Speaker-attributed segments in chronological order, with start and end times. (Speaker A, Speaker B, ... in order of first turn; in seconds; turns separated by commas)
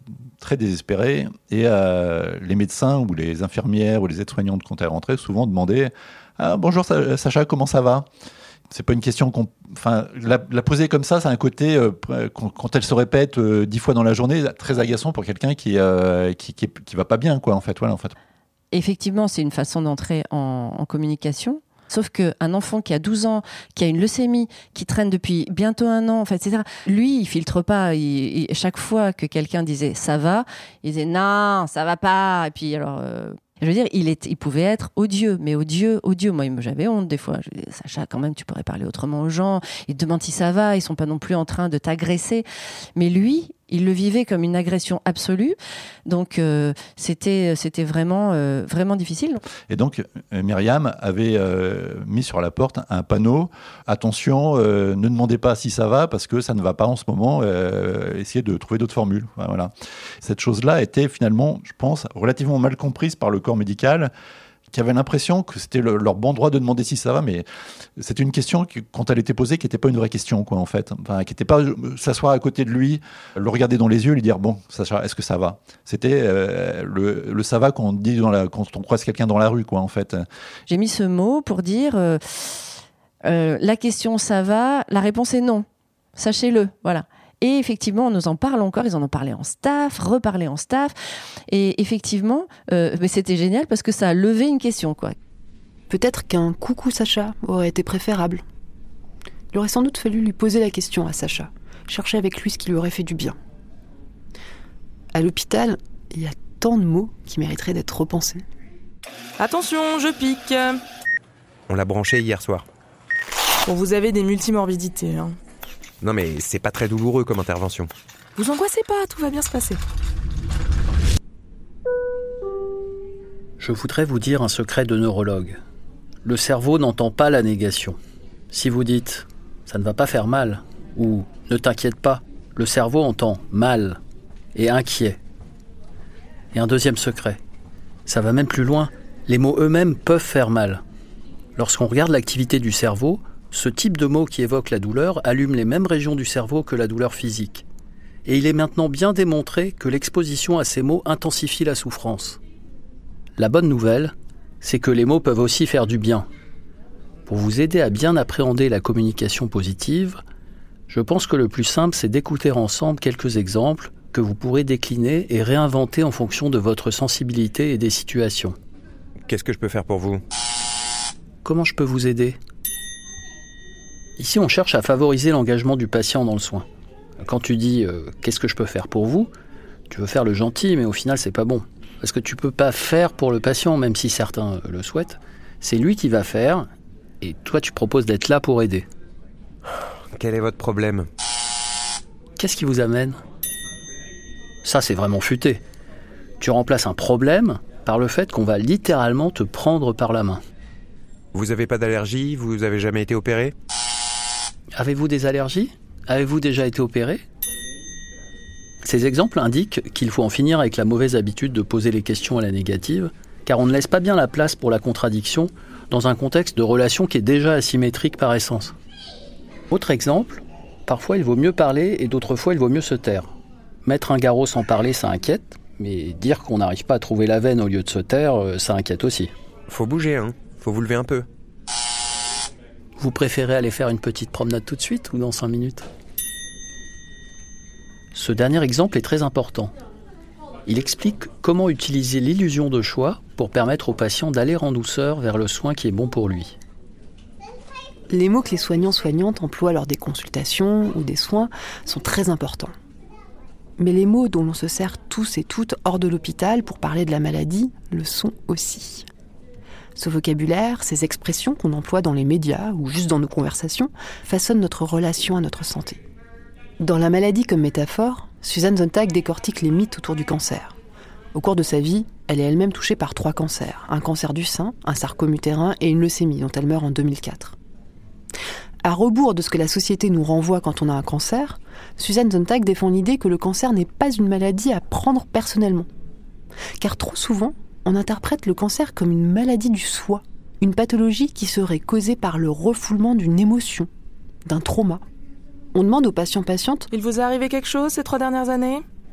Speaker A: 0.4-8.1, Speaker A: 8.7-18.1, Speaker B: 18.7-49.4, Speaker A: 49.7-64.1, Speaker A: 64.7-67.5, Speaker A: 68.0-80.2, Speaker B: 80.7-90.9, Speaker B: 91.5-95.2, Speaker C: 95.9-98.4, Speaker C: 99.5-103.4, Speaker C: 105.1-108.5, Speaker D: 109.4-110.8, Speaker E: 111.7-112.7, Speaker D: 113.7-115.4, Speaker E: 116.0-117.9, Speaker D: 118.3-119.8, Speaker F: 123.6-125.6, Speaker F: 126.2-128.0, Speaker F: 128.5-134.0, Speaker F: 134.5-135.2, Speaker F: 136.5-137.4, Speaker F: 138.1-140.8, Speaker F: 141.6-147.6, Speaker F: 148.2-152.4, Speaker F: 153.4-156.3, Speaker F: 157.3-160.2, Speaker F: 160.9-168.6, Speaker E: 169.3-170.2, Speaker F: 171.4-172.4, Speaker F: 174.2-176.7, Speaker F: 177.2-179.3, Speaker F: 179.9-186.7, Speaker F: 187.2-188.8, Speaker E: 190.1-191.1, Speaker F: 192.4-193.2, Speaker F: 194.6-195.6, Speaker F: 196.4-200.4, Speaker E: 201.3-203.5, Speaker F: 204.8-207.2, Speaker F: 208.8-218.7, Speaker F: 219.7-223.3, Speaker F: 223.8-229.3, Speaker E: 229.7-231.2, Speaker F: 233.0-235.9, Speaker F: 238.1-239.7, Speaker F: 240.7-246.6, Speaker C: 248.1-252.7, Speaker C: 253.8-259.1, Speaker C: 260.0-266.0, Speaker C: 266.8-270.8, Speaker C: 271.3-277.6, Speaker C: 278.8-285.9, Speaker C: 286.8-293.9, Speaker C: 294.4-295.0, Speaker C: 295.7-296.9, Speaker D: 296.9-298.8